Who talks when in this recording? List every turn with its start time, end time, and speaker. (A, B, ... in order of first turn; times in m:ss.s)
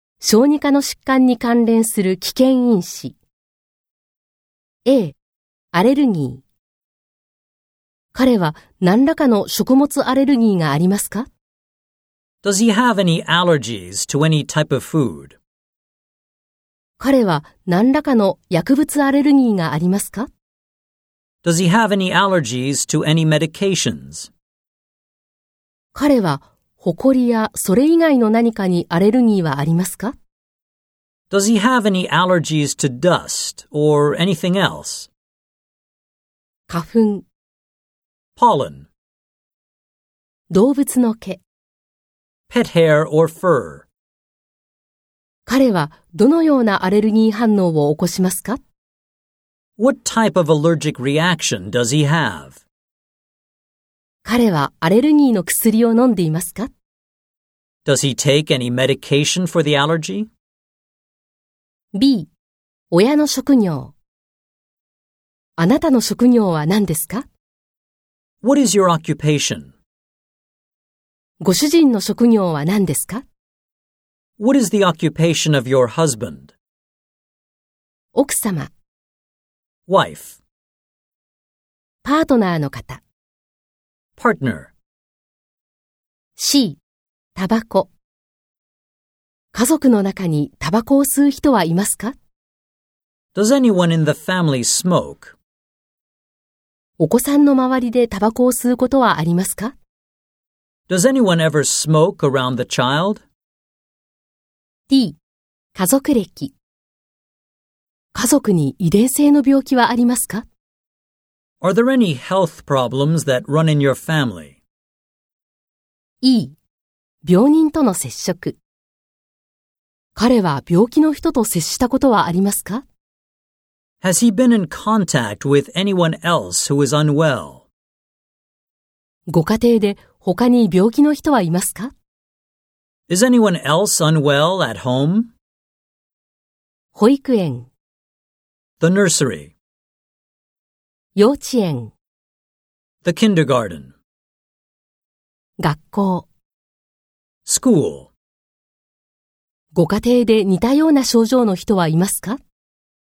0:00.2-0:03.2 A
0:04.8-0:05.2 A
0:05.7-0:06.4 A
0:08.1-0:11.3 A
0:12.4-0:15.4 B
0:17.0-0:20.3 A
0:21.4-0:24.3 B
0:25.9-0:30.1 A
0:31.3-0:35.1 B
0:36.7-0:37.2 A
0:38.4-0:38.9 B
0:40.5-0:41.4 A
0:42.5-0:43.8 B
0:45.4-0:48.6 A
0:49.8-0:52.6 B
0:54.2-0:56.7 A
0:57.8-1:00.3 B
1:01.9-1:02.3 A
1:02.9-1:03.9 A
1:05.6-1:07.2 A
1:08.4-1:09.7 B
1:11.4-1:13.2 A
1:14.4-1:16.5 B
1:18.1-1:18.7 A
1:19.9-1:20.4 B
1:22.0-1:23.0 A
1:24.2-1:24.7 B
1:26.4-1:26.8 A
1:27.3-1:27.9 A
1:29.5-1:32.2 A
1:33.3-1:35.3 B
1:37.0-1:39.7 A
1:40.9-1:43.2 B
1:44.9-1:45.2 A
1:45.7-1:46.5 A
1:48.1-1:50.4 A
1:51.6-1:54.6 B
1:56.2-1:56.6 A
1:57.2-1:58.6 A
2:00.2-2:02.8 A
2:04.0-2:07.7 B
2:09.3-2:11.9 A
2:13.1-2:15.3 B
2:16.9-2:17.7 A
2:18.8-2:19.5 B
2:21.1-2:21.9 A
2:23.0-2:23.9 B
2:25.6-2:26.3 A
2:27.4-2:28.1 B
2:29.7-2:32.4 A